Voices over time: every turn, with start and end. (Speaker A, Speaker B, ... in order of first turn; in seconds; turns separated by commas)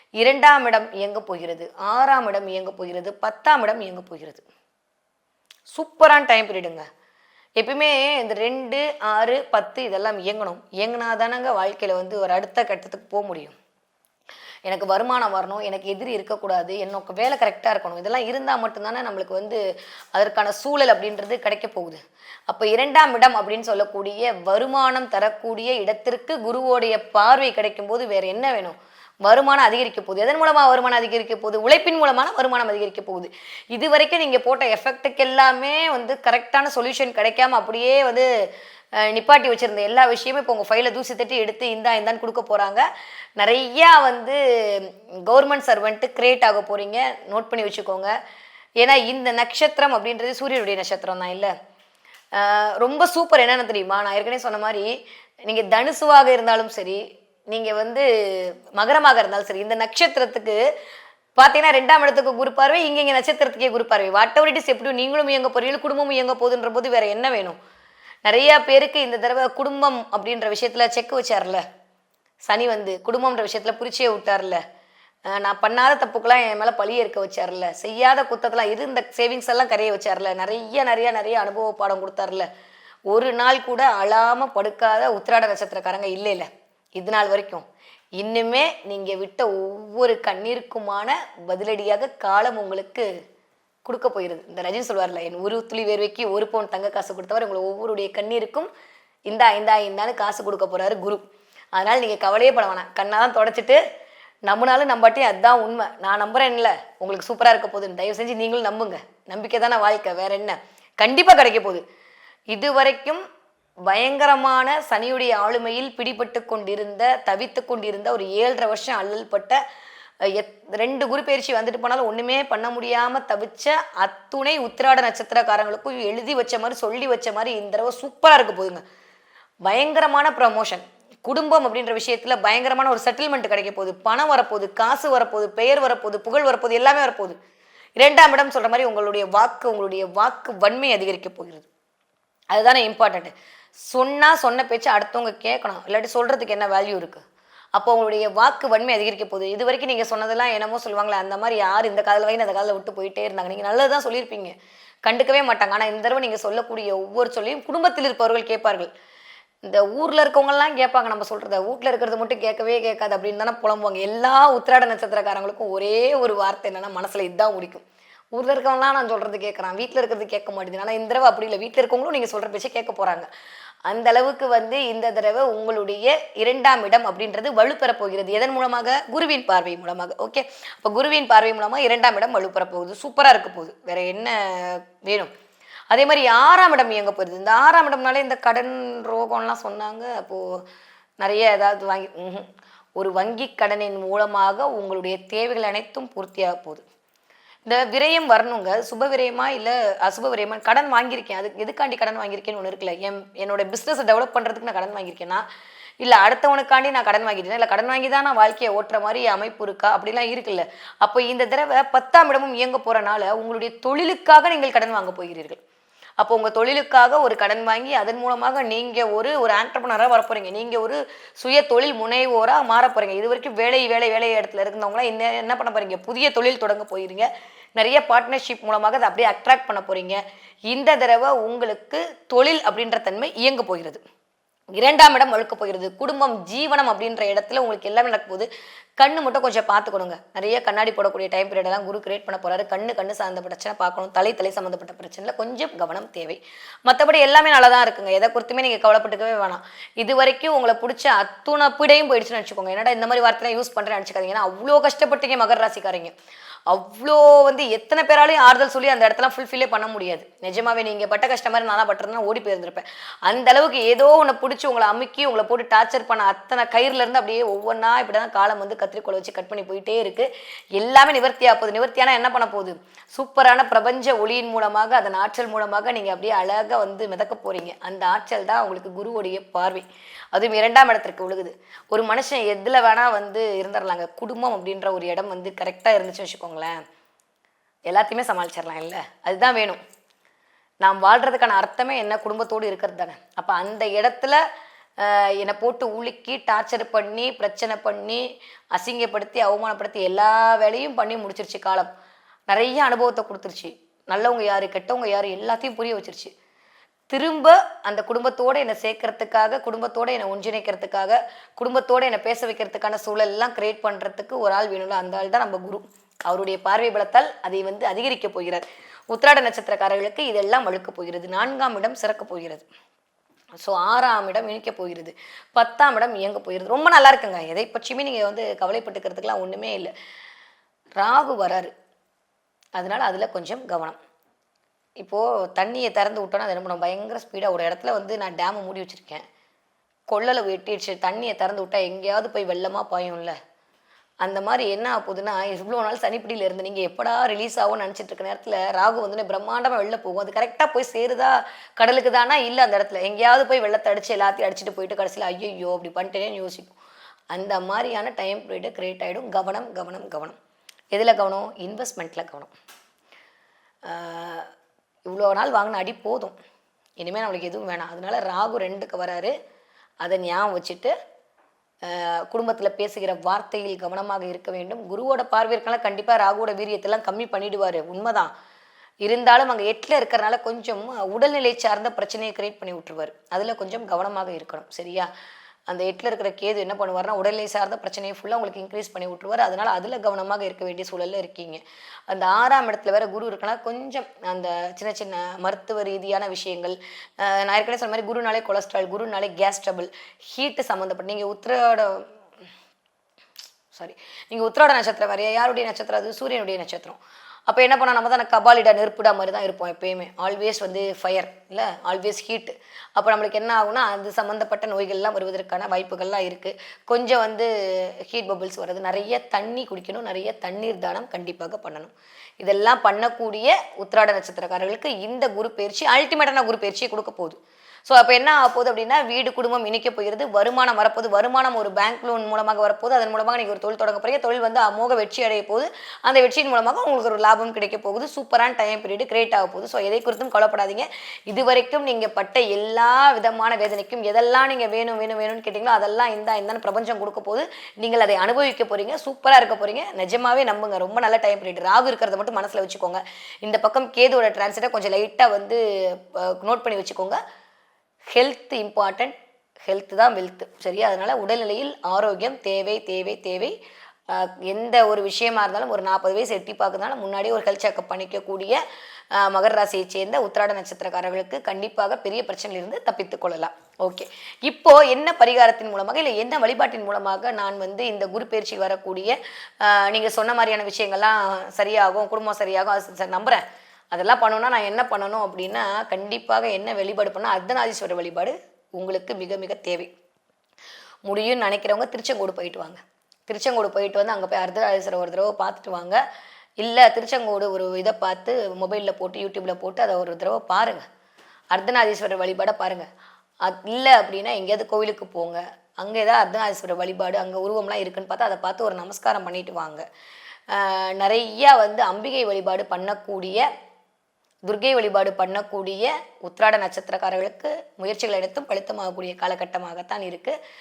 Speaker A: 0.2-4.5, Speaker A: 5.7-6.8, Speaker A: 7.6-13.6, Speaker A: 14.7-19.6, Speaker A: 20.1-22.0, Speaker A: 22.5-38.3, Speaker A: 39.0-42.9, Speaker A: 43.4-48.1, Speaker A: 48.8-51.5, Speaker A: 52.4-54.9, Speaker A: 55.5-60.6, Speaker A: 61.4-67.6, Speaker A: 68.3-71.6, Speaker A: 72.5-74.6, Speaker A: 75.3-82.5, Speaker A: 83.1-87.7, Speaker A: 88.2-93.1, Speaker A: 93.9-98.7, Speaker A: 99.3-101.2, Speaker A: 101.8-103.8, Speaker A: 104.5-111.8, Speaker A: 112.5-113.2, Speaker A: 113.9-119.6, Speaker A: 120.3-128.8, Speaker A: 129.7-137.4, Speaker A: 138.0-141.7, Speaker A: 142.5-143.3, Speaker A: 143.9-147.2, Speaker A: 147.8-154.5, Speaker A: 155.1-158.9, Speaker A: 159.6-167.8, Speaker A: 168.3-173.3, Speaker A: 173.9-185.3, Speaker A: 185.9-190.6, Speaker A: 191.2-196.8, Speaker A: 197.7-205.4, Speaker A: 206.0-215.6, Speaker A: 216.2-234.0, Speaker A: 234.8-238.5, Speaker A: 239.0-256.1, Speaker A: 256.7-286.8, Speaker A: 287.9-289.8, Speaker A: 290.8-294.4, Speaker A: 295.0-298.2, Speaker A: 298.7-301.9, Speaker A: 302.5-306.3, Speaker A: 307.1-322.7, Speaker A: 323.6-329.9, Speaker A: 331.0-331.7, Speaker A: 332.8-334.0, Speaker A: 335.0-339.2, Speaker A: 340.1-343.4, Speaker A: 344.2-356.7, Speaker A: 357.3-360.4, Speaker A: 360.9-362.5, Speaker A: 363.9-364.5, Speaker A: 365.1-366.4, Speaker A: 367.0-369.3, Speaker A: 370.0-370.9, Speaker A: 371.9-378.3, Speaker A: 379.1-385.1, Speaker A: 385.7-402.1, Speaker A: 403.7-417.5, Speaker A: 418.1-457.2, Speaker A: 458.1-459.1, Speaker A: 459.7-463.6, Speaker A: 464.1-468.6, Speaker A: 469.1-483.4, Speaker A: 483.9-489.9, Speaker A: 491.1-496.0, Speaker A: 496.6-500.9, Speaker A: 501.5-502.9, Speaker A: 503.4-509.9, Speaker A: 510.5-513.5, Speaker A: 514.5-520.4